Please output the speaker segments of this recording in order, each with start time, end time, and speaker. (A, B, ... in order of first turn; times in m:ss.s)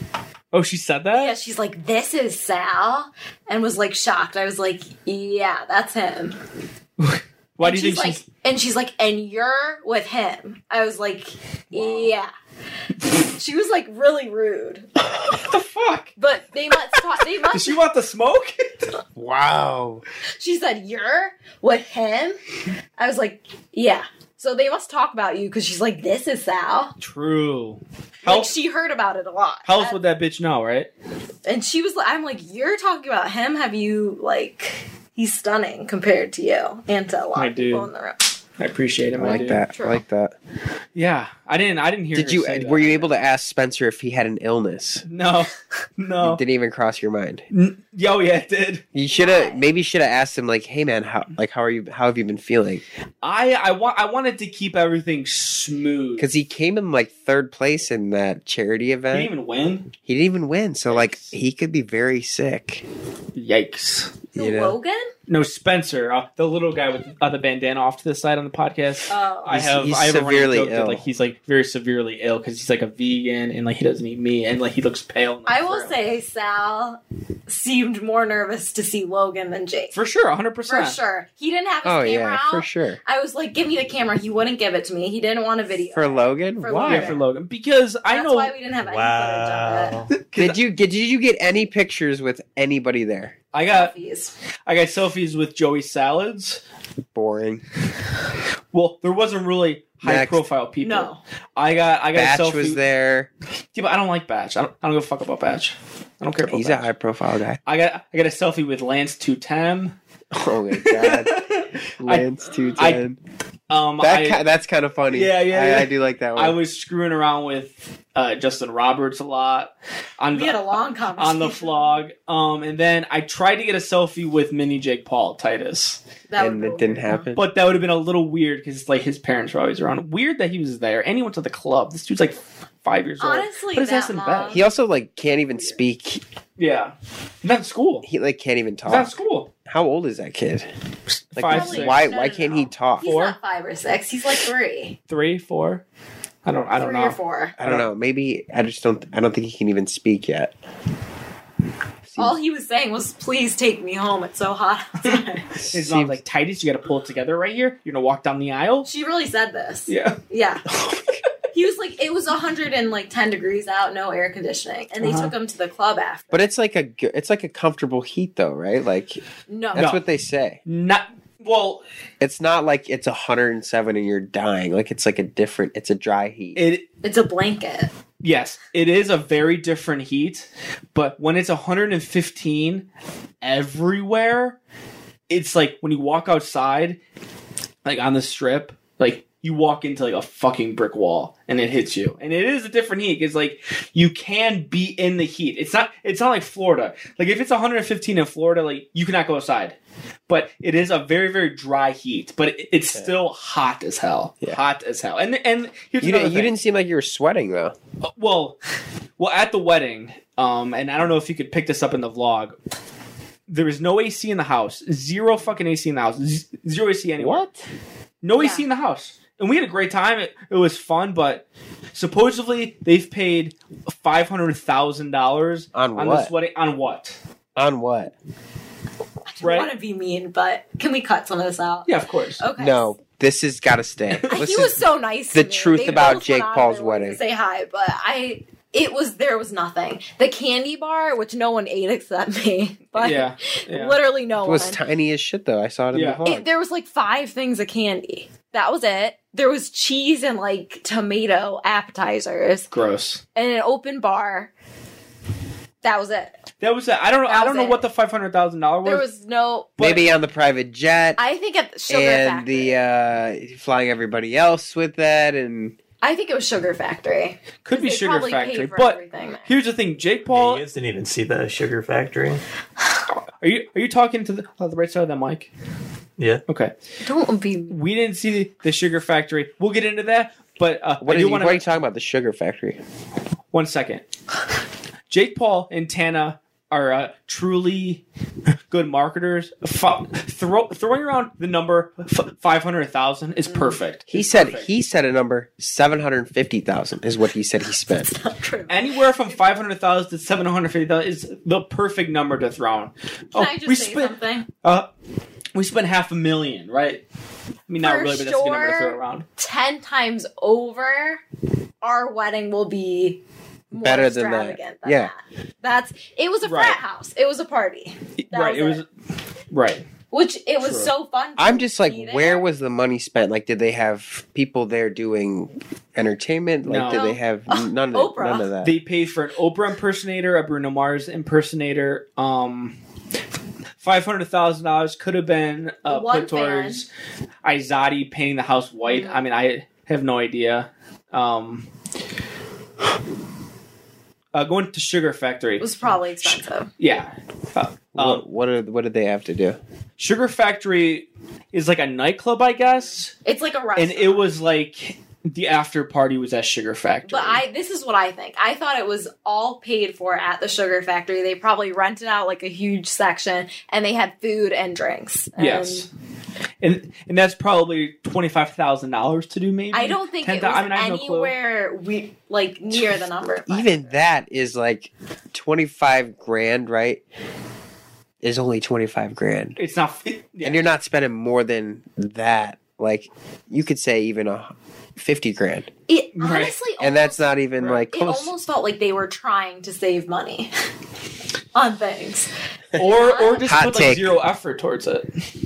0:00.5-0:01.4 A
0:01.1-0:06.4 B
0:07.0-0:08.2 A
0:07.6-0:12.3 B
0:11.8-0:12.1 A
0:13.3-0:14.9 B
0:15.2-0:16.1 A
0:16.2-0:17.8 B
0:17.5-0:18.9 A
0:19.2-0:20.0 C
0:20.4-0:22.4 B
0:23.0-0:27.0 B
0:27.0-0:28.5 A
0:28.2-0:30.0 B
0:29.7-0:30.9 A
0:31.5-0:38.2 B
0:37.4-0:37.9 A
0:38.6-0:39.6 A
0:39.2-0:40.3 C
0:39.2-0:40.0 B
0:41.0-0:43.0 A
0:42.2-0:45.0 C
0:45.1-0:46.4 A
0:46.2-0:47.4 C
0:47.5-0:48.8 A
0:48.9-0:52.8 C
0:49.1-0:49.6 B
0:53.2-0:56.3 A
0:56.2-0:59.3 C
0:59.1-0:59.9 A
1:00.0-1:02.8 C
1:00.9-1:01.4 A
1:03.4-1:04.2 A
1:04.4-1:05.1 B
1:04.4-1:04.8 C
1:05.3-1:15.9 A
1:09.1-1:09.6 B
1:09.5-1:11.0 C
1:15.5-1:19.9 B
1:19.9-1:21.0 A
1:20.7-1:27.2 B
1:21.8-1:23.0 C
1:25.9-1:27.2 C
1:26.8-1:28.5 A
1:28.1-1:30.0 B
1:28.8-1:30.1 D
1:30.1-1:30.6 A
1:30.4-1:33.4 C
1:33.5-1:33.9 A
1:33.7-1:34.4 B
1:34.7-1:36.6 A
1:37.1-1:37.6 C
1:38.7-1:42.8 A
1:40.0-1:40.4 C
1:40.8-1:41.2 B
1:42.1-1:43.3 C
1:43.7-1:46.9 A
1:46.5-1:47.6 C
1:47.7-1:50.0 A
1:50.3-1:51.4 C
1:50.8-1:53.0 A
1:52.0-1:53.2 C
1:53.7-1:54.4 A
1:54.0-1:56.6 C
1:55.1-2:06.0 A
2:00.3-2:02.0 B
2:06.3-2:07.3 B
2:06.4-2:07.4 C
2:07.4-2:14.6 A
2:13.2-2:14.6 B
2:14.5-2:16.2 C
2:16.6-2:18.1 A
2:18.0-2:20.7 C
2:18.9-2:19.5 A
2:21.2-2:22.0 A
2:21.4-2:23.1 C
2:21.4-2:25.0 B
2:23.0-2:23.4 A
2:25.1-2:25.8 A
2:26.4-2:27.9 A
2:26.8-2:27.6 B
2:27.6-2:30.5 C
2:32.1-2:32.4 C
2:32.2-2:35.5 B
2:35.6-2:36.2 C
2:35.7-2:38.9 A
2:38.9-2:40.6 B
2:39.9-2:40.2 A
2:41.5-2:46.4 B
2:45.0-2:45.3 A
2:46.3-2:49.2 C
2:49.5-2:49.9 B
2:49.7-2:50.6 C
2:49.8-2:50.0 A
2:50.7-2:51.8 A
2:52.2-2:56.6 C
2:56.6-2:56.8 A
2:57.0-2:57.9 B
2:58.2-3:02.9 A
3:03.4-3:04.6 A
3:05.3-3:07.0 A
3:07.8-3:19.8 A
3:20.3-3:26.5 A
3:26.0-3:27.8 C
3:28.0-3:28.6 A
3:29.2-3:32.6 A
3:33.5-3:37.5 A
3:37.2-3:37.6 C
3:38.2-3:47.2 A
3:38.4-3:38.6 B
3:45.7-3:46.3 C
3:47.6-3:48.1 C
3:49.3-3:52.9 B
3:49.4-3:49.7 A
3:51.9-3:52.4 A
3:52.6-3:54.8 C
3:54.3-4:04.8 B
3:55.3-3:57.2 C
3:55.9-3:56.1 A
4:03.0-4:04.0 A
4:04.4-4:06.5 C
4:05.9-4:06.2 A
4:06.2-4:12.7 B
4:12.7-4:13.2 A
4:13.4-4:14.5 B
4:15.8-4:16.4 B
4:16.6-4:19.1 A
4:17.3-4:17.8 B
4:18.8-4:19.7 B
4:19.8-4:20.1 A
4:19.8-4:21.2 C
4:21.2-4:22.8 B
4:21.9-4:25.8 C
4:26.0-4:29.6 B
4:27.6-4:30.6 A
4:30.3-4:32.4 D
4:33.4-4:35.5 A
4:36.2-4:36.4 D
4:36.5-4:36.7 A
4:37.0-4:37.8 B
4:37.7-4:41.6 A
4:41.0-4:42.8 C
4:43.5-4:44.0 A
4:45.1-4:48.0 A
4:48.7-4:54.7 A
4:53.5-4:53.8 B
4:54.1-4:58.1 C
4:58.0-4:58.8 B
4:58.7-5:04.9 A
5:03.3-5:04.5 B
5:05.6-5:07.0 A
5:07.7-5:09.3 A
5:07.8-5:11.2 B
5:11.8-5:13.2 B
5:13.7-5:18.8 B
5:13.7-5:15.1 C
5:16.4-5:16.8 A
5:18.2-5:18.9 A
5:19.5-5:19.9 A
5:20.1-5:22.4 B
5:20.6-5:20.9 A
5:21.4-5:28.7 C
5:26.7-5:27.0 A
5:26.9-5:28.5 B
5:28.6-5:32.8 A
5:33.8-5:36.9 A
5:35.9-5:36.8 B
5:37.4-5:41.7 A
5:38.8-5:39.2 B
5:44.3-5:48.2 A
5:45.6-5:46.7 B
5:48.0-5:49.6 C
5:50.0-5:53.1 A
5:52.8-5:54.3 B
5:53.8-5:57.4 A
5:57.0-6:05.9 B
6:05.4-6:05.9 A
6:06.6-6:11.3 A
6:09.7-6:13.8 B
6:13.5-6:17.0 C
6:18.2-6:19.6 C
6:19.6-6:20.7 A
6:20.4-6:25.7 C
6:25.9-6:30.5 B
6:26.2-6:26.6 A
6:26.8-6:28.3 C
6:31.5-6:33.5 B
6:32.8-6:35.2 A
6:33.4-6:34.2 C